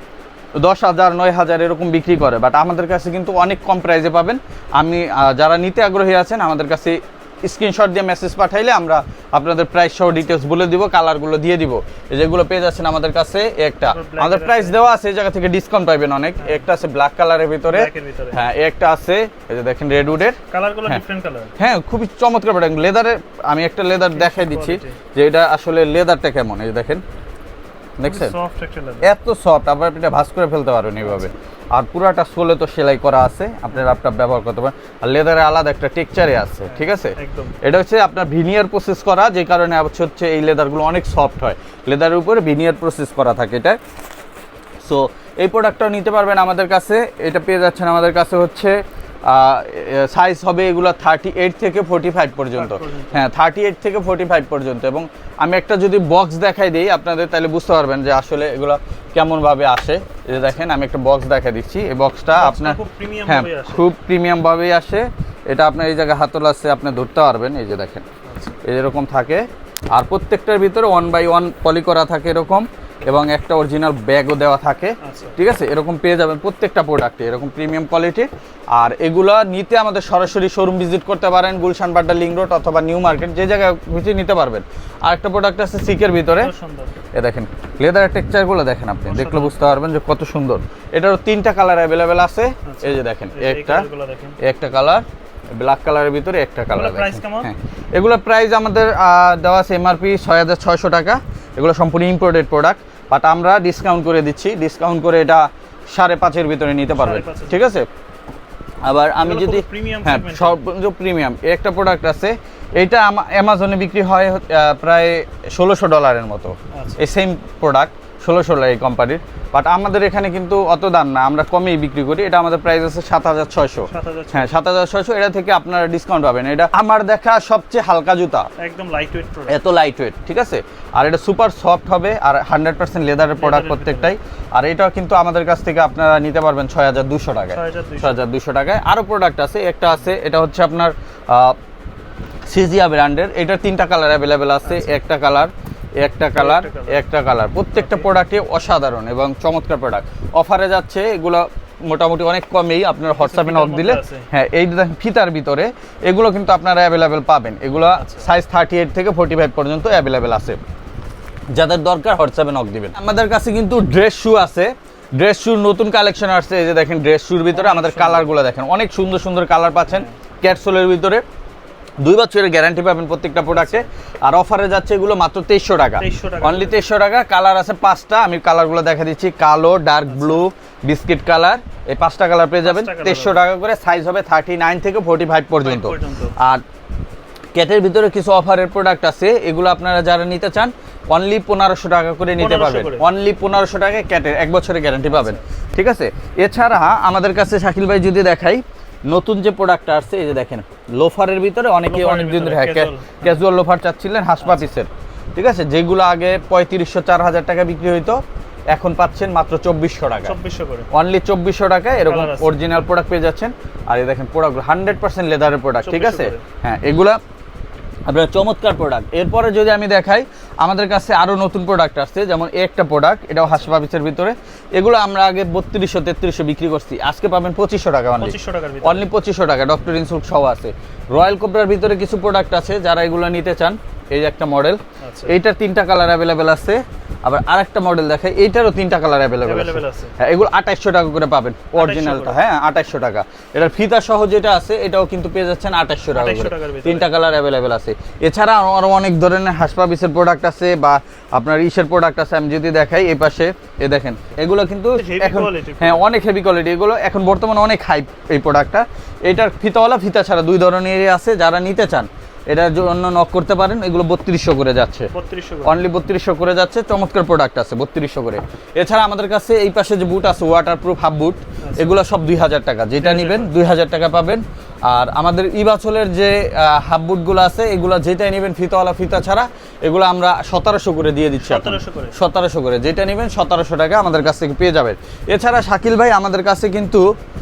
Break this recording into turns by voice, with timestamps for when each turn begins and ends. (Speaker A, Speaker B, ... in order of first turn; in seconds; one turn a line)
Speaker A: 0.6-21.0
Speaker B: 13.8-14.8
Speaker B: 16.4-16.7
Speaker B: 17.7-18.4
Speaker B: 20.4-21.5
Speaker A: 21.6-27.0
Speaker B: 24.1-25.0
Speaker A: 28.0-28.3
Speaker B: 28.0-29.1
Speaker A: 29.0-43.8
Speaker B: 31.1-31.3
Speaker B: 36.7-37.6
Speaker A: 44.8-68.0
Speaker B: 52.5-53.2
Speaker B: 62.3-63.8
Speaker B: 68.2-68.6
Speaker A: 68.6-86.5
Speaker B: 75.0-75.4
Speaker B: 86.3-87.0
Speaker A: 87.1-93.9
Speaker B: 89.0-89.7
Speaker B: 92.7-94.4
Speaker A: 94.4-95.0
Speaker A: 95.5-107.9
Speaker B: 96.7-97.5
Speaker B: 106.9-107.8
Speaker A: 108.8-128.5
Speaker B: 109.2-110.6
Speaker B: 116.7-117.0
Speaker B: 123.9-124.5
Speaker B: 128.6-129.6
Speaker A: 129.5-141.6
Speaker B: 133.4-134.1
Speaker B: 137.5-138.2
Speaker A: 142.5-160.6
Speaker B: 144.6-145.0
Speaker B: 146.3-147.0
Speaker B: 147.7-148.1
Speaker B: 153.1-154.3
Speaker B: 157.9-158.3
Speaker A: 161.5-171.2
Speaker B: 167.5-168.3
Speaker B: 169.9-170.2
Speaker A: 172.0-186.6
Speaker B: 173.5-173.9
Speaker B: 176.0-176.8
Speaker B: 180.1-180.4
Speaker B: 182.6-183.4
Speaker B: 185.6-186.3
Speaker A: 187.5-208.2
Speaker B: 192.4-193.1
Speaker B: 195.1-195.4
Speaker B: 201.8-203.4
Speaker B: 204.4-204.7
Speaker A: 208.7-210.4
Speaker B: 210.2-210.9
Speaker A: 210.9-217.2
Speaker B: 212.0-212.5
Speaker B: 215.8-216.4
Speaker A: 218.1-265.1
Speaker B: 223.4-223.7
Speaker B: 228.2-229.1
Speaker B: 235.0-235.3
Speaker B: 239.4-240.2
Speaker B: 241.8-242.4
Speaker B: 246.1-247.1
Speaker B: 254.9-256.1
Speaker B: 265.1-265.8
Speaker A: 265.6-287.0
Speaker B: 271.6-272.0
Speaker B: 273.0-273.5
Speaker B: 281.4-282.2